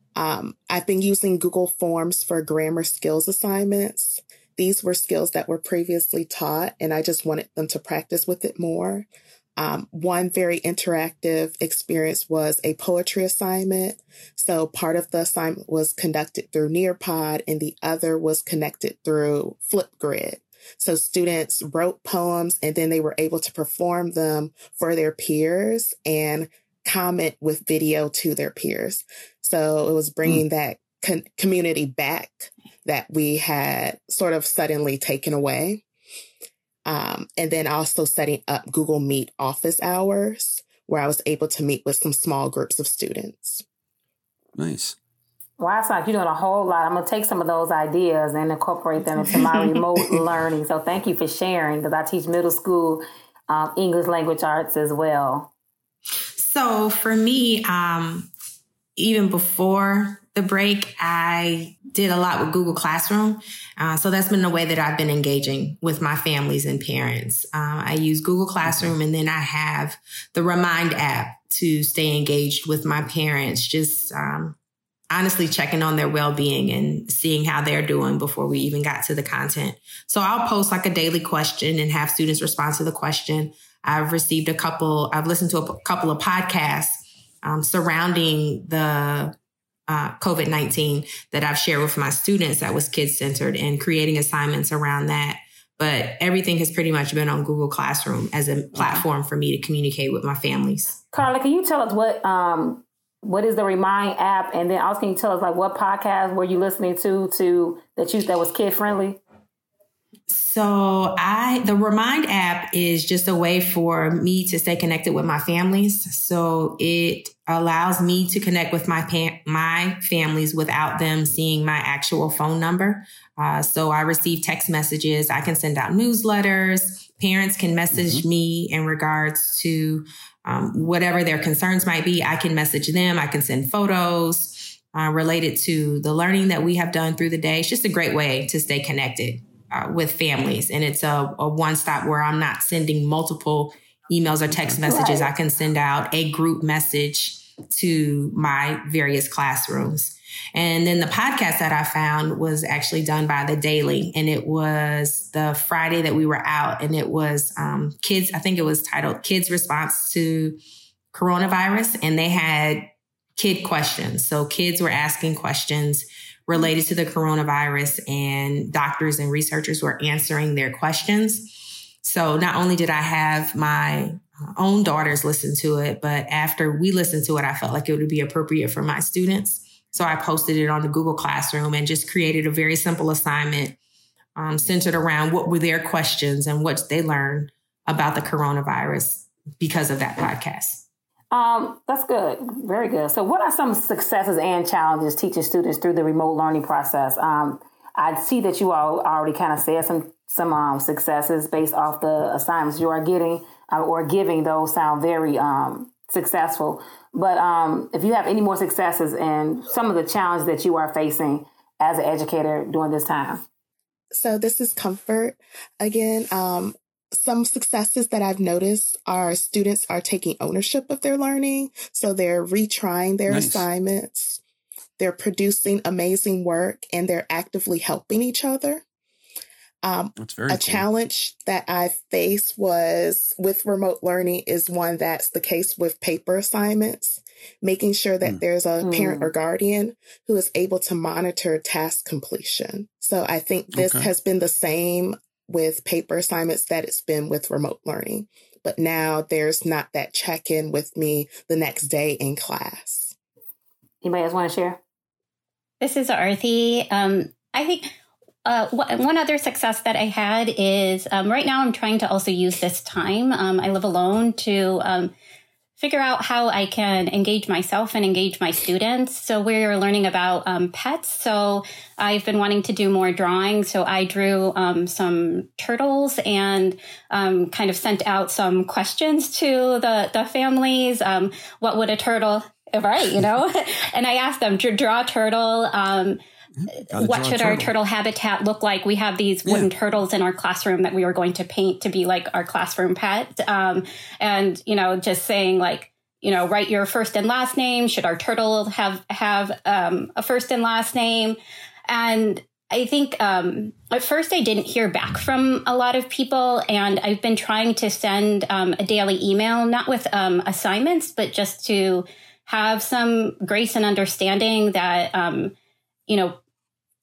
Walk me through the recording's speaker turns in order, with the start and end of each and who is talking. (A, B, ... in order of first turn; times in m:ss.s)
0:00.2-0:35.8 A
0:36.9-0:43.6 A
0:44.6-0:45.0 B
0:45.6-0:55.5 C
0:56.4-0:58.3 D
0:59.0-1:14.6 D
1:08.6-1:08.9 B
1:15.1-1:29.4 D
1:29.9-1:41.0 D
1:38.8-1:39.0 B
1:41.1-1:49.2 C
1:50.3-2:40.6 D
2:07.9-2:08.2 B
2:24.5-2:24.8 B
2:24.8-2:25.3 C
2:41.1-3:03.8 D
3:04.4-3:10.8 D
3:11.3-3:33.4 C
3:34.1-3:44.4 A
3:43.3-3:43.7 B
3:45.0-3:48.8 A
3:49.8-4:13.1 A
3:50.2-3:50.9 B
3:58.8-3:59.3 C
4:03.7-4:04.1 B
4:14.0-4:14.8 C
4:15.8-4:17.9 E
4:18.4-4:25.1 E
4:25.8-4:46.2 E
4:46.9-4:47.7 B
4:46.9-5:01.4 E
5:01.9-5:15.5 E
5:16.1-5:16.4 E